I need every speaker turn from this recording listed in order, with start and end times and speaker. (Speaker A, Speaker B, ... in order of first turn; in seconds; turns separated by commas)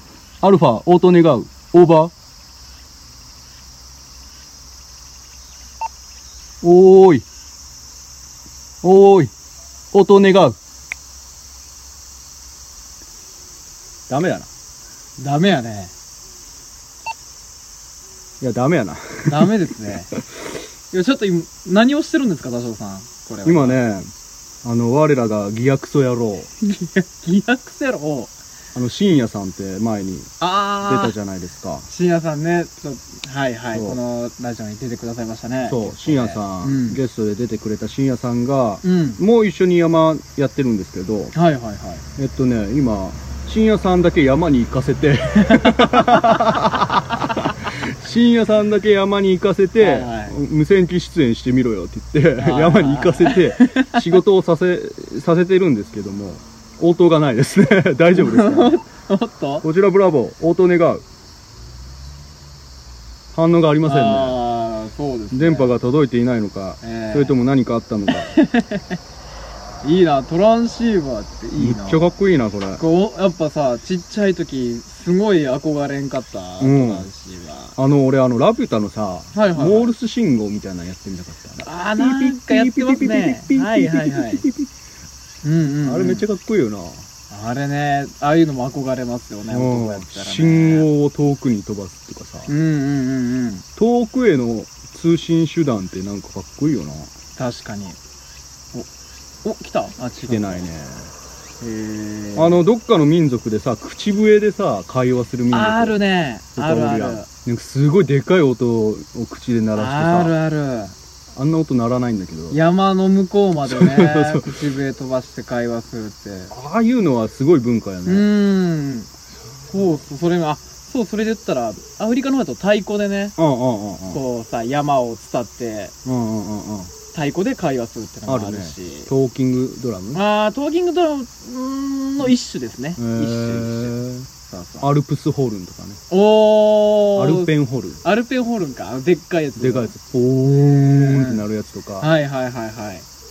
Speaker A: 0.4-2.1, Speaker A: 6.6-7.2, Speaker A: 8.8-9.3, Speaker A: 9.9-10.6, Speaker A: 14.1-14.5, Speaker B: 15.2-15.9, Speaker A: 18.4-19.5, Speaker B: 19.2-20.1, Speaker B: 20.9-23.8, Speaker A: 23.4-24.1, Speaker A: 24.6-26.5, Speaker B: 26.6-28.3, Speaker A: 28.8-31.9, Speaker B: 30.4-31.2, Speaker B: 31.9-37.0, Speaker A: 33.7-34.0, Speaker A: 35.7-41.4, Speaker B: 38.8-39.2, Speaker B: 41.3-42.0, Speaker A: 42.2-58.8, Speaker B: 45.5-46.1, Speaker B: 49.8-50.4, Speaker B: 52.4-54.0, Speaker B: 58.1-59.7, Speaker A: 59.6-61.0, Speaker A: 63.3-64.4, Speaker B: 63.9-65.8, Speaker A: 65.3-68.3, Speaker B: 66.8-67.4, Speaker B: 68.1-69.0, Speaker B: 69.8-72.2, Speaker A: 71.6-72.8, Speaker B: 72.8-77.8, Speaker A: 76.6-77.1, Speaker A: 77.8-84.7, Speaker B: 79.3-79.9, Speaker B: 81.6-84.5, Speaker B: 85.4-86.3, Speaker A: 85.8-87.1, Speaker B: 87.3-90.9, Speaker A: 89.5-92.5, Speaker B: 92.5-93.7, Speaker A: 93.8-97.1, Speaker B: 97.4-98.0, Speaker B: 99.4-100.7, Speaker A: 100.2-101.1, Speaker B: 101.6-102.6, Speaker A: 102.3-106.0, Speaker B: 105.5-107.3, Speaker A: 106.5-110.4, Speaker B: 109.8-111.0, Speaker A: 111.3-112.6, Speaker B: 112.5-116.5, Speaker A: 113.6-114.6, Speaker A: 116.5-118.3, Speaker B: 118.1-119.1, Speaker B: 119.7-123.4, Speaker A: 123.4-124.2, Speaker B: 124.1-125.9, Speaker A: 126.0-126.9, Speaker B: 127.1-129.1, Speaker A: 128.3-130.2, Speaker B: 130.1-133.9, Speaker A: 133.0-134.3, Speaker B: 134.5-134.9, Speaker A: 134.8-136.0, Speaker B: 136.1-137.5, Speaker A: 137.2-138.0, Speaker B: 138.0-139.9, Speaker A: 139.6-142.1, Speaker B: 140.9-141.4, Speaker B: 142.0-143.1